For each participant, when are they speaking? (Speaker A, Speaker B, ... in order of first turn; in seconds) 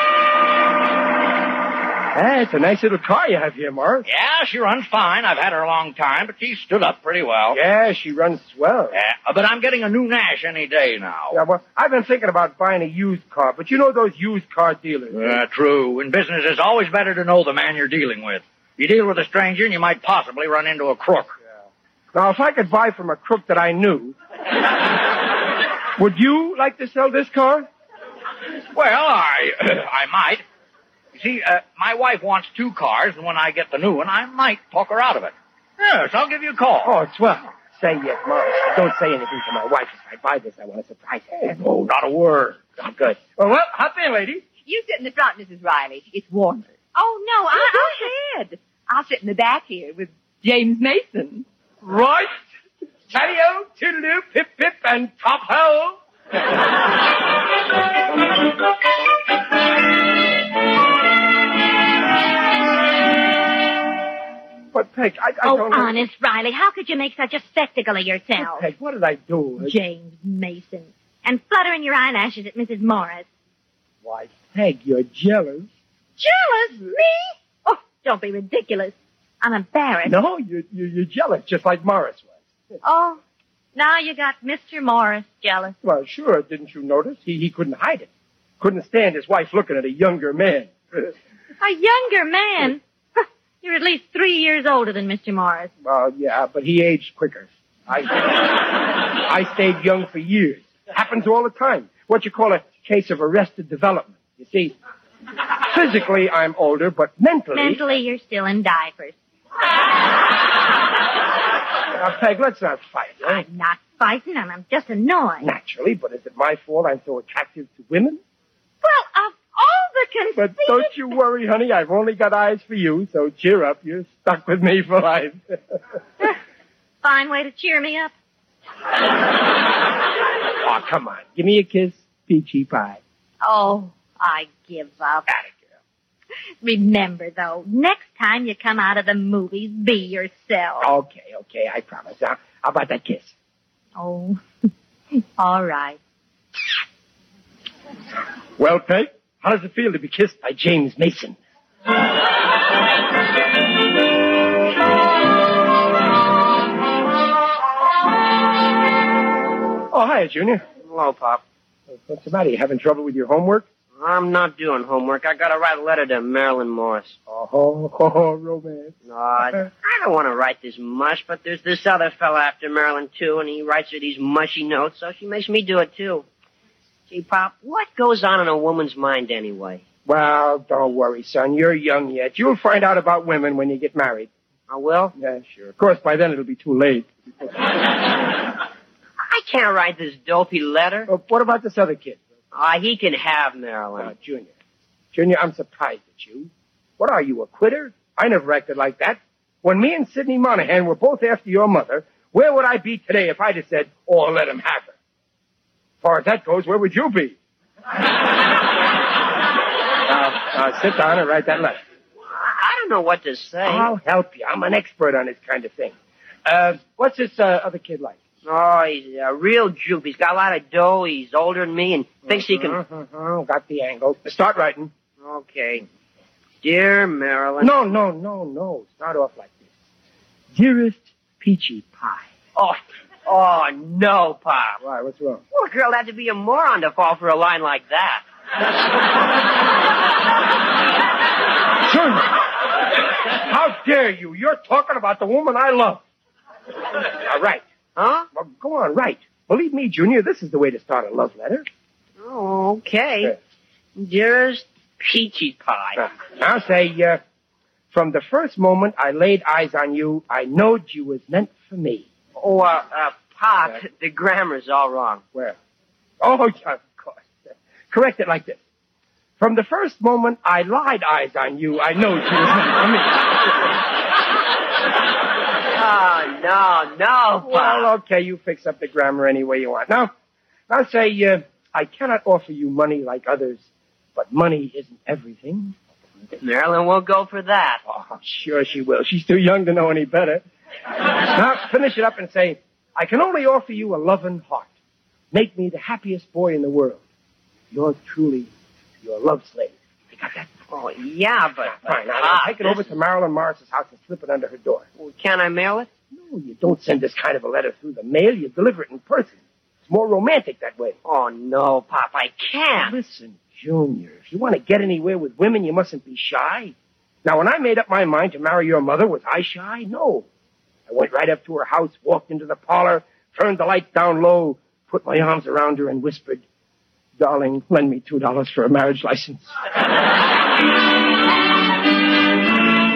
Speaker A: 2.1-4.1, 7.5-9.0, 11.3-15.4, 22.1-24.1, 26.0-27.7, 36.8-41.9, 42.7-44.4, 51.8-52.4, 53.1-56.0, 64.7-66.0, 68.4-69.8, 74.0-75.7, 80.0-82.3, 85.8-88.1, 88.6-91.1, 95.8-104.7, 105.7-107.8, 111.9-113.4, 115.4-118.2, 120.3-125.8, 130.6-133.0, 135.3-135.6, 140.8-143.3, 148.6-151.4, 159.9-160.7, 162.0-163.7, 167.3-169.0, 180.1-184.3, 185.2-187.7, 191.1-192.2, 194.0-194.5, 195.1-204.9, 206.0-207.3, 210.1-211.8, 213.6-215.9, 216.4-218.2, 222.2-224.9, 227.6-229.6, 230.5-232.3, 234.8-235.4, 241.8-242.3, 243.3-246.0, 247.2-247.7, 248.3-251.7, 256.0-257.2, 257.9-262.1, 266.2-268.6, 269.4-273.7, 277.4-280.1, 280.7-283.6, 284.1-285.7, 287.9-290.4, 291.2-294.7, 295.3-297.0, 297.7-298.5, 299.0-300.6, 301.6-304.9, 306.1-311.0, 312.8-316.7, 317.2-320.2, 320.9-326.4, 327.2-329.5
Speaker B: 4.0-7.6, 8.9-11.4, 15.1-21.3, 28.7-30.4, 31.1-36.9, 41.7-42.6
Speaker C: 44.6-46.7, 47.5-51.4
Speaker D: 46.9-48.1, 65.4-68.6, 69.6-73.2, 76.2-77.1, 77.6-80.2, 82.8-83.2, 83.7-85.8, 91.6-95.7, 107.5-109.1, 113.2-115.5, 118.8-121.0, 127.0-128.1, 133.4-135.3, 136.6-140.9, 144.0-144.4, 145.4-146.0
Speaker E: 160.8-161.4, 163.9-167.2, 169.0-176.2, 177.1-179.8, 184.7-185.1, 189.2-191.1, 192.5-194.1, 212.3-213.9, 218.4-222.8, 225.2-225.8, 226.6-227.7, 232.6-234.8, 235.5-238.2, 247.9-248.3, 252.2-253.3, 253.9-256.0, 262.4-265.2, 275.7-277.9, 286.4-287.8, 300.7-302.9, 305.0-305.9, 311.0-312.9